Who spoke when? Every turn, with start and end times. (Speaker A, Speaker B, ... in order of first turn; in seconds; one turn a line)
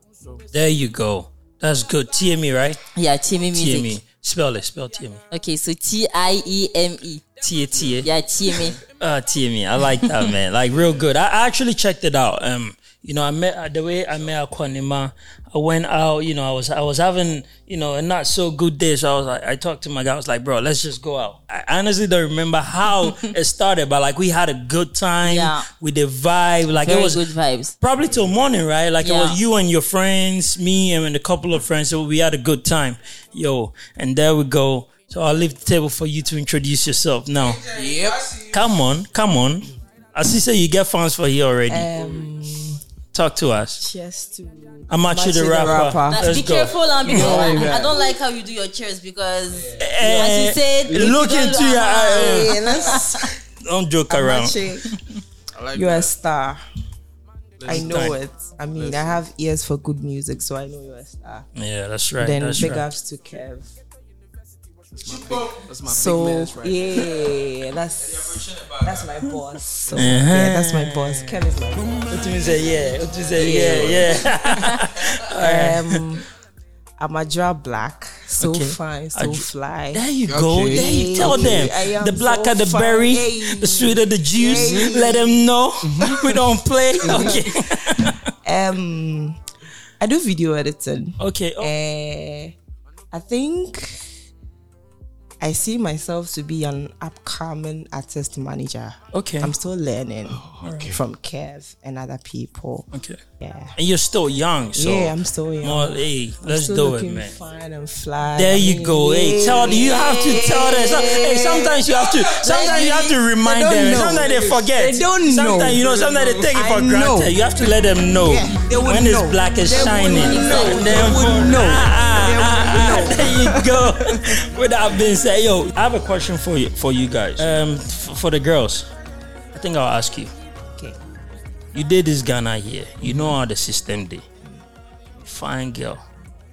Speaker A: 0.5-2.8
Speaker B: 3.0-4.0
Speaker A: 3.5-5.2
Speaker B: 5.3-7.3
Speaker A: 7.4-8.1
Speaker B: 8.0-8.8
Speaker A: 8.8-27.2
Speaker B: 25.2-25.7
Speaker B: 26.7-27.8
Speaker A: 27.8-41.9
Speaker B: 29.0-29.4
Speaker C: 37.7-38.5
Speaker D: 41.7-42.8
Speaker A: 43.1-43.8
Speaker D: 43.8-46.4
Speaker A: 44.9-47.5
Speaker B: 46.1-53.2
Speaker C: 47.0-48.0
Speaker A: 49.8-54.6
Speaker D: 52.1-53.3
Speaker D: 54.1-54.9
Speaker C: 55.6-56.1
Speaker D: 55.7-56.6
Speaker C: 57.6-58.2
Speaker D: 57.6-61.5
Speaker A: 57.7-58.2
Speaker C: 58.7-59.2
Speaker A: 61.5-62.9
Speaker D: 62.2-63.7
Speaker C: 64.9-67.1
Speaker D: 65.9-72.4
Speaker C: 69.9-70.4
Speaker A: 69.9-71.4
Speaker A: 72.1-76.0
Speaker D: 73.3-74.3
Speaker D: 75.4-76.2
Speaker D: 77.0-80.0
Speaker A: 78.4-88.3
Speaker C: 80.3-81.7
Speaker D: 80.6-85.4
Speaker C: 85.8-86.4
Speaker D: 87.0-89.4
Speaker C: 87.0-87.4
Speaker D: 90.0-92.5
Speaker A: 91.2-91.7
Speaker D: 93.1-94.0
Speaker D: 95.4-102.9
Speaker A: 99.1-99.5
Speaker C: 100.3-101.0
Speaker A: 102.9-103.2
Speaker D: 103.4-103.7
Speaker A: 103.8-107.3
Speaker D: 104.8-117.4
Speaker A: 108.3-128.9
Speaker B: 112.5-113.0
Speaker C: 115.7-116.5
Speaker D: 118.2-124.2
Speaker B: 119.7-121.2
Speaker A: 129.5-130.3
Speaker A: 131.7-134.2
Speaker A: 135.2-136.0